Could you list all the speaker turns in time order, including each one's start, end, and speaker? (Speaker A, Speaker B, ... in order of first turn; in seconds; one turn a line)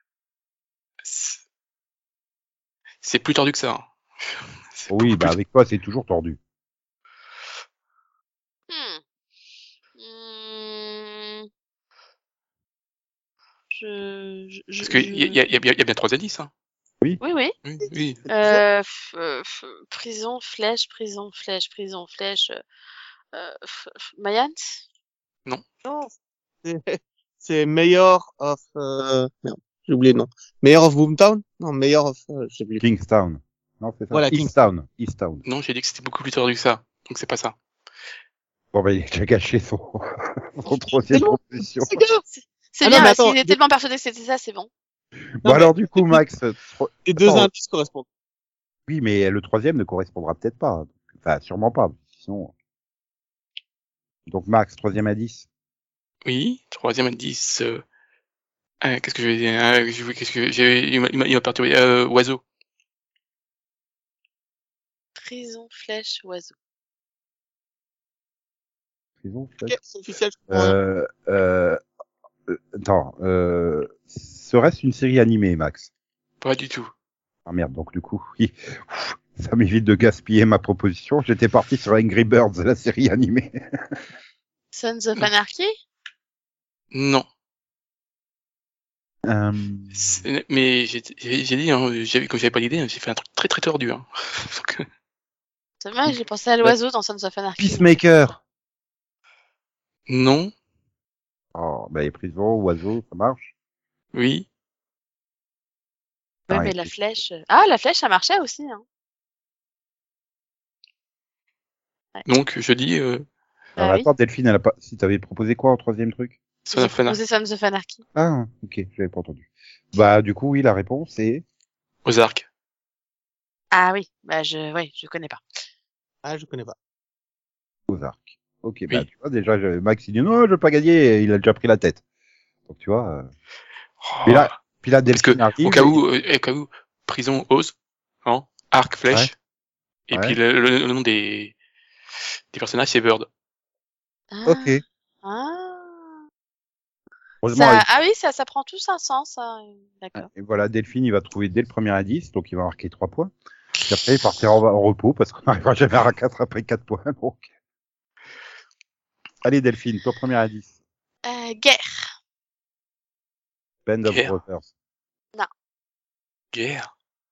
Speaker A: 1.0-1.4
Speaker A: 3.0-5.4
Speaker B: 4.9-6.4
Speaker C: 8.7-9.0
Speaker C: 10.0-11.5
Speaker C: 13.7-15.4
Speaker A: 14.8-16.5
Speaker C: 17.2-17.5
Speaker A: 17.6-18.2
Speaker D: 18.2-18.6
Speaker C: 18.3-22.6
Speaker C: 23.3-24.8
Speaker D: 25.8-26.1
Speaker D: 26.6-32.8
Speaker B: 32.8-35.5
Speaker D: 34.1-34.5
Speaker A: 35.5-37.5
Speaker B: 38.7-42.0
Speaker D: 41.1-42.2
Speaker C: 42.3-44.7
Speaker D: 42.8-43.6
Speaker B: 45.4-47.5
Speaker D: 45.5-46.2
Speaker D: 47.1-48.0
Speaker B: 48.9-52.5
Speaker B: 54.3-55.5
Speaker A: 56.3-57.8
Speaker A: 58.8-62.4
Speaker C: 65.2-66.5
Speaker B: 69.2-69.8
Speaker D: 69.7-70.8
Speaker B: 70.5-71.8
Speaker B: 72.5-75.9
Speaker A: 76.4-76.9
Speaker B: 77.5-83.6
Speaker C: 84.7-85.7
Speaker A: 86.9-87.3
Speaker B: 89.2-90.2
Speaker A: 90.0-94.8
Speaker C: 95.8-97.9
Speaker B: 97.6-98.4
Speaker A: 100.1-100.5
Speaker B: 101.5-103.5
Speaker A: 104.1-104.5
Speaker C: 106.5-108.8
Speaker B: 106.5-106.9
Speaker A: 112.3-113.2
Speaker C: 113.8-114.1
Speaker B: 113.8-116.4
Speaker A: 116.7-117.2
Speaker C: 116.7-118.0
Speaker B: 118.2-121.4
Speaker A: 122.0-122.5
Speaker C: 123.7-125.4
Speaker D: 126.2-126.8
Speaker B: 127.9-132.0
Speaker B: 132.7-133.3
Speaker A: 134.0-134.6
Speaker B: 134.3-136.0
Speaker A: 135.1-137.7
Speaker A: 138.2-139.3
Speaker A: 140.1-141.6
Speaker B: 140.1-140.4
Speaker A: 142.5-143.3
Speaker C: 144.3-146.1
Speaker B: 144.5-144.8
Speaker B: 147.4-147.9
Speaker C: 147.5-150.3
Speaker B: 150.2-157.5
Speaker B: 159.4-160.7
Speaker C: 161.2-162.1
Speaker B: 163.9-164.7
Speaker A: 164.0-164.3
Speaker A: 166.5-166.9